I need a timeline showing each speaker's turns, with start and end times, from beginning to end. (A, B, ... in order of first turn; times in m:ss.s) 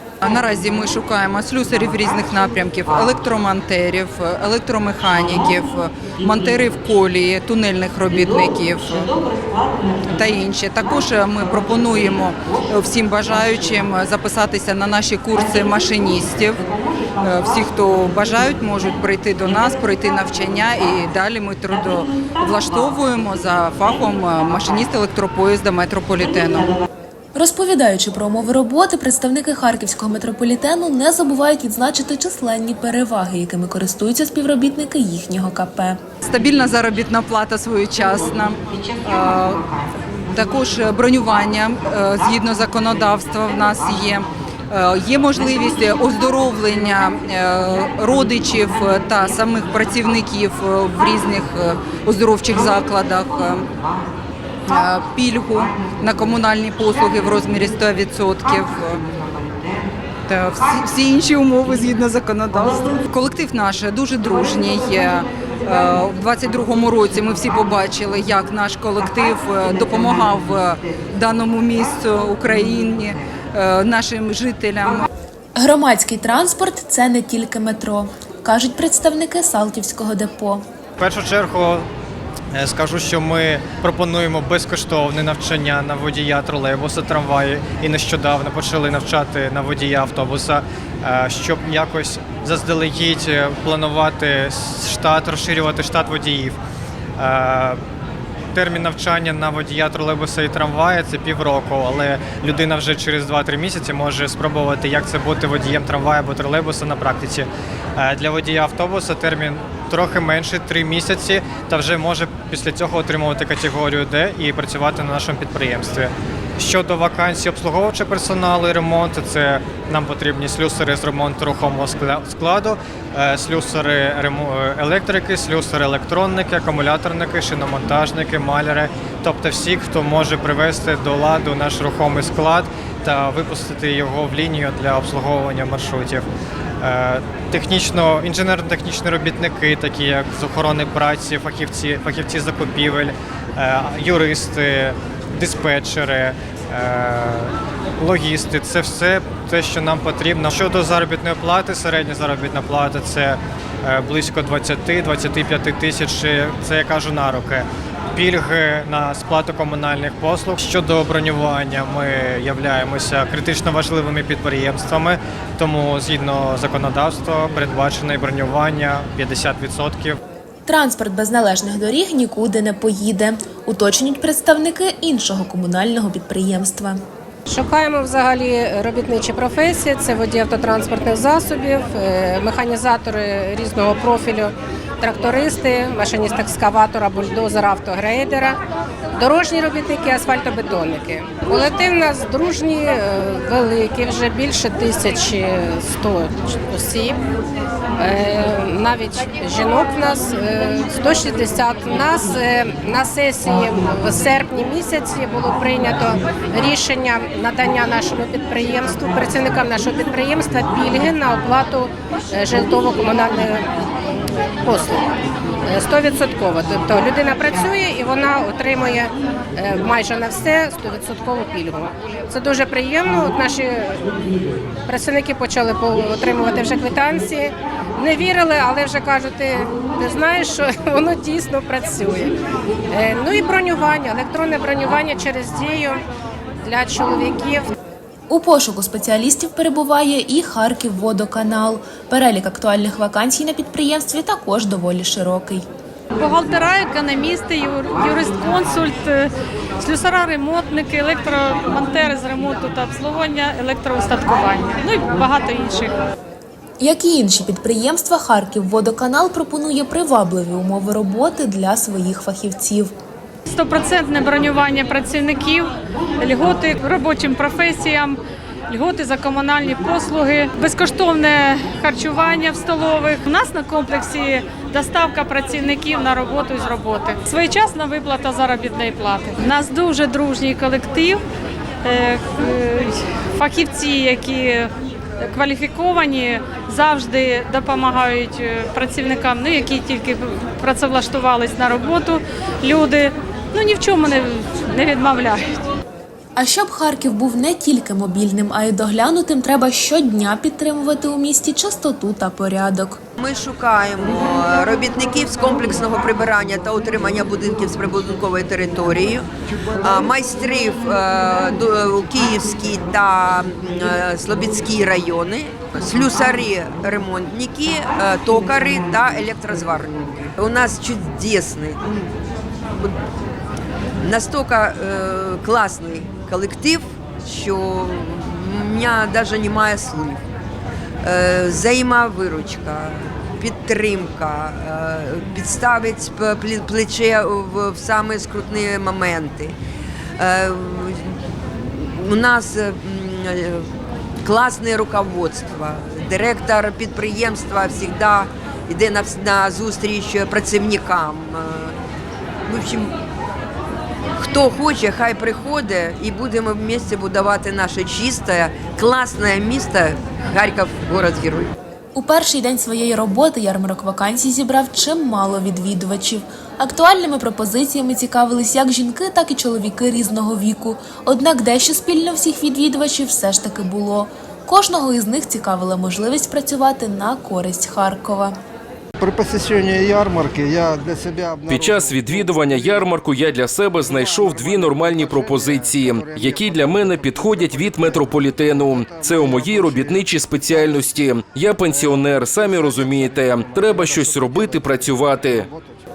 0:00.2-0:09.2 A
0:10.0-0:26.8 A
0:27.3-0:36.0 B
0:36.2-0:39.7 A
0:40.3-0:53.7 A
0:54.7-0:59.0 A
1:00.3-1:15.1 A
1:15.6-1:20.6 B
1:21.0-1:21.9 C
1:22.5-1:36.6 C
1:37.2-1:37.8 C
1:38.5-2:16.2 C
2:16.8-2:50.2 C
2:50.6-2:57.0 B
2:57.4-3:08.6 D
3:09.1-3:17.2 D
3:18.0-3:35.1 D
3:35.6-3:44.1 D
3:44.8-3:56.0 D
3:56.6-3:57.7 D
3:58.3-4:05.7 B
4:06.1-4:09.3 E
4:09.8-4:15.9 E
4:16.8-4:22.9 B
4:23.5-4:41.2 E
4:41.8-4:55.6 E
4:56.4-5:03.0 B
5:03.2-5:09.2 F
5:09.8-5:21.9 F
5:24.0-5:30.2 F
5:31.0-5:39.6 F
5:40.2-5:43.7 F
5:44.2-5:51.8 F
5:52.5-5:52.9 F
5:54.2-6:01.5 F
6:01.9-6:18.4 B
6:19.1-6:21.4 G
6:21.4-6:35.5 H